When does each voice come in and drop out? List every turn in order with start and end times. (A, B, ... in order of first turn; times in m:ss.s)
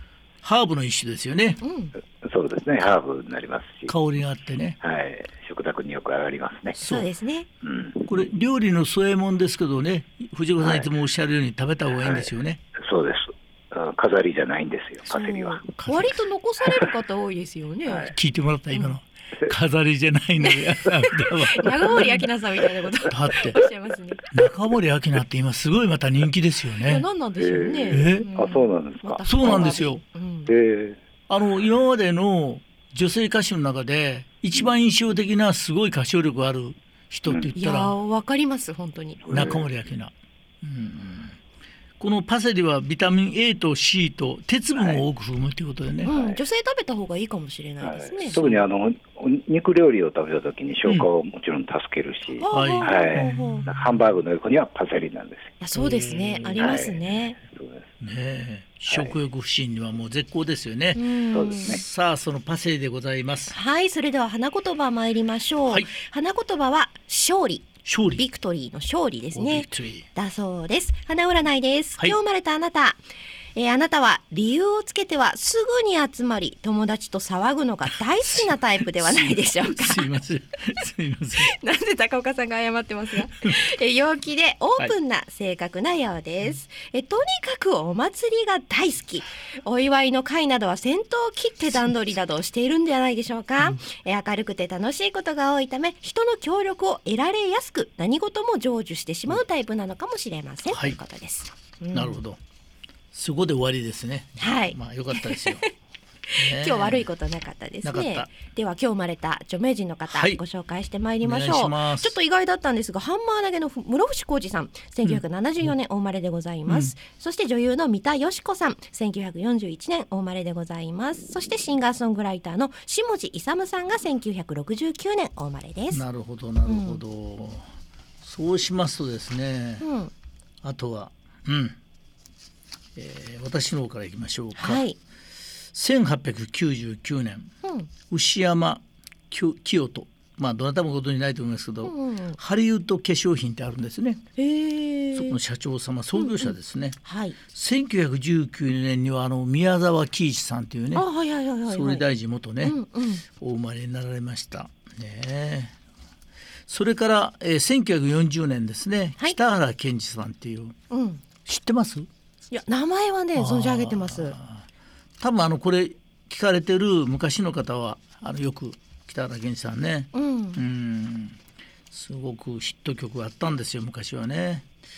0:00.4-0:01.6 A
0:01.6-0:01.9 B
0:02.2-0:03.9 C
0:03.9-0:04.8 A
0:04.8-0:06.8 C
0:06.8-0:07.1 A
0:06.8-0:07.5 B
0:07.6-0:08.1 C
0:08.1-0:12.6 A
0:10.6-0:10.9 C
0:12.0-0:15.7 C
0:15.1-0:18.1 B
0:15.8-0:16.2 A
0:17.9-0:18.1 C
0:18.1-0:22.3 A
0:20.4-0:24.3 B
0:23.1-0:23.6 A
0:24.3-0:27.0 A
0:26.8-0:30.5 B
0:27.4-0:29.8 C
0:27.9-0:28.3 A
0:29.2-0:30.0 A
0:30.5-0:31.0 C
0:31.3-0:38.0 A
0:37.6-0:39.4 B
0:39.2-0:39.7 C
0:39.3-0:41.4 A
0:42.0-0:46.1 A
0:44.7-0:45.0 C
0:46.0-0:48.6 B
0:46.0-0:46.4 C
0:47.8-0:55.6 C
0:52.4-0:53.7 B
0:52.5-0:54.2 A
0:55.6-0:57.4 B
0:55.7-0:56.8 A
0:56.5-0:57.9 C
0:58.0-1:03.6 A
0:58.9-0:59.1 C
1:01.0-1:01.8 B
1:01.3-1:01.8 C
1:03.5-1:13.0 B
1:07.8-1:08.2 A
1:09.3-1:10.1 A
1:13.6-1:20.1 B
1:18.4-1:21.6 A
1:21.4-1:42.2 B
1:40.7-1:41.0 A
1:41.9-1:42.4 A
1:43.1-1:45.6 A
1:44.4-1:45.7 B
1:46.3-2:06.0 B
1:46.4-1:47.1 A
1:47.8-1:48.3 A
1:50.1-1:50.4 A
1:51.2-1:52.1 A
1:56.7-1:56.9 A
2:05.9-2:07.7 A
2:06.6-2:07.0 B
2:08.2-2:09.9 A
2:09.8-2:10.1 B
2:10.6-2:11.8 A
2:13.0-2:14.8 A
2:14.6-2:15.0 B
2:15.7-2:17.5 A
2:17.6-2:17.9 B
2:18.1-2:24.2 A
2:21.8-2:22.4 B
2:24.4-2:25.4 B
2:25.1-2:31.1 A
2:26.1-2:27.4 B
2:30.9-2:32.0 B
2:31.7-2:32.8 A
2:32.6-2:33.2 B
2:33.3-2:35.8 A
2:36.7-2:40.8 A
2:40.9-2:41.2 B
2:41.4-2:42.1 A
2:42.5-2:44.4 B
2:43.4-2:44.6 A
2:45.2-2:51.4 A
2:50.1-2:50.6 B
2:51.9-2:54.7 A